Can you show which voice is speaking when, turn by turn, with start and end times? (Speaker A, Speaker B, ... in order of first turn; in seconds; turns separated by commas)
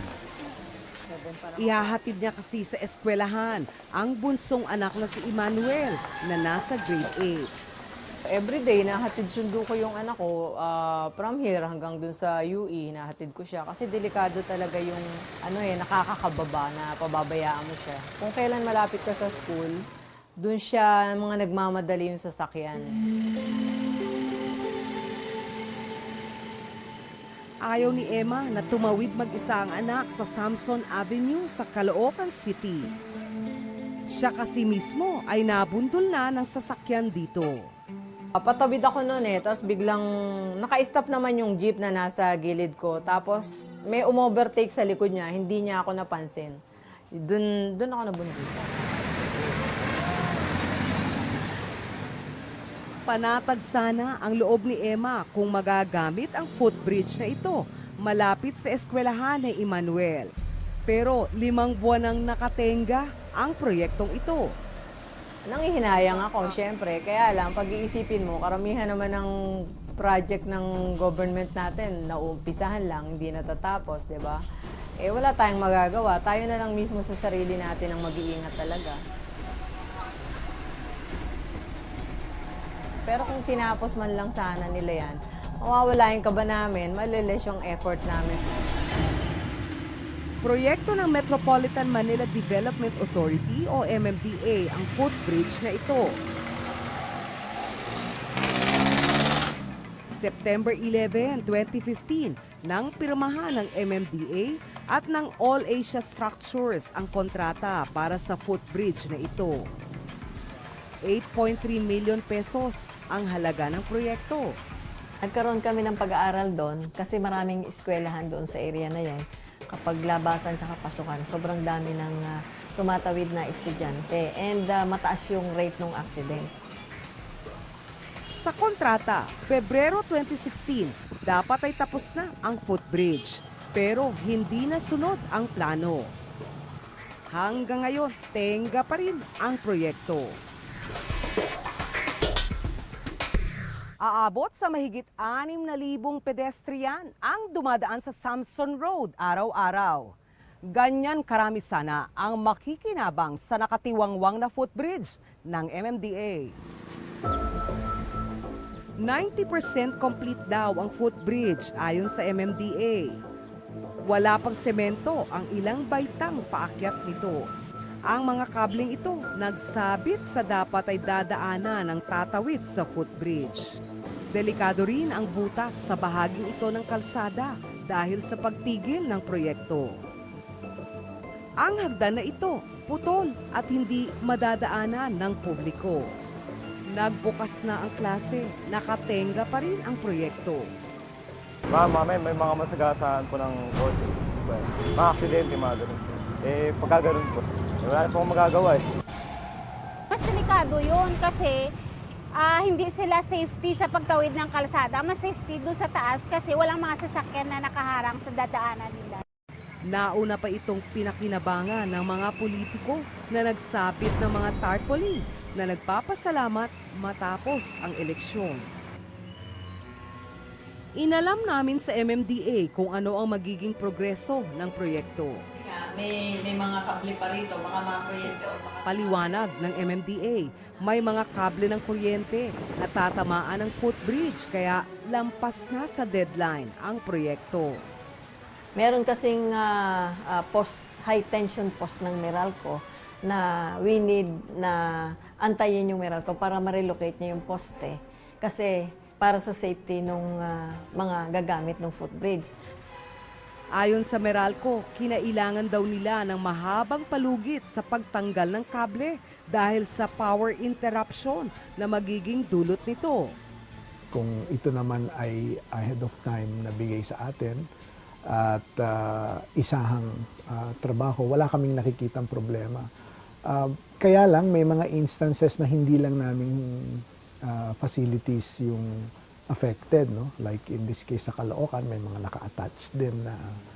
Speaker A: 1.1-1.9, Speaker B: 1.6-7.5, Speaker A: 8.3-19.9, Speaker A: 20.4-22.9, Speaker B: 27.6-32.9, Speaker B: 34.1-37.7, Speaker A: 38.4-40.1, Speaker A: 40.6-46.6, Speaker A: 47.2-48.7, Speaker B: 53.1-60.3, Speaker B: 60.9-64.5, Speaker A: 65.5-74.4, Speaker B: 66.0-66.5, Speaker A: 75.0-79.0, Speaker A: 83.0-88.5, Speaker B: 90.4-96.2, Speaker B: 100.1-109.7, Speaker B: 111.1-114.5, Speaker C: 115.2-126.6, Speaker B: 128.4-136.1, Speaker B: 137.3-140.4, Speaker B: 144.0-150.2, Speaker B: 150.7-156.6, Speaker B: 159.0-163.2, Speaker B: 164.1-167.4, Speaker B: 168.1-173.7, Speaker B: 174.3-180.0, Speaker B: 181.6-186.2, Speaker B: 186.9-190.7, Speaker D: 191.7-198.9, Speaker E: 200.1-201.6, Speaker E: 202.4-209.2, Speaker B: 209.9-218.7, Speaker B: 221.0-225.4, Speaker C: 225.5-229.0, Speaker B: 228.8-237.8, Speaker C: 238.8-252.6, Speaker B: 253.8-263.3, Speaker F: 264.1-267.6, Speaker F: 268.3-272.9, Speaker F: 273.5-283.6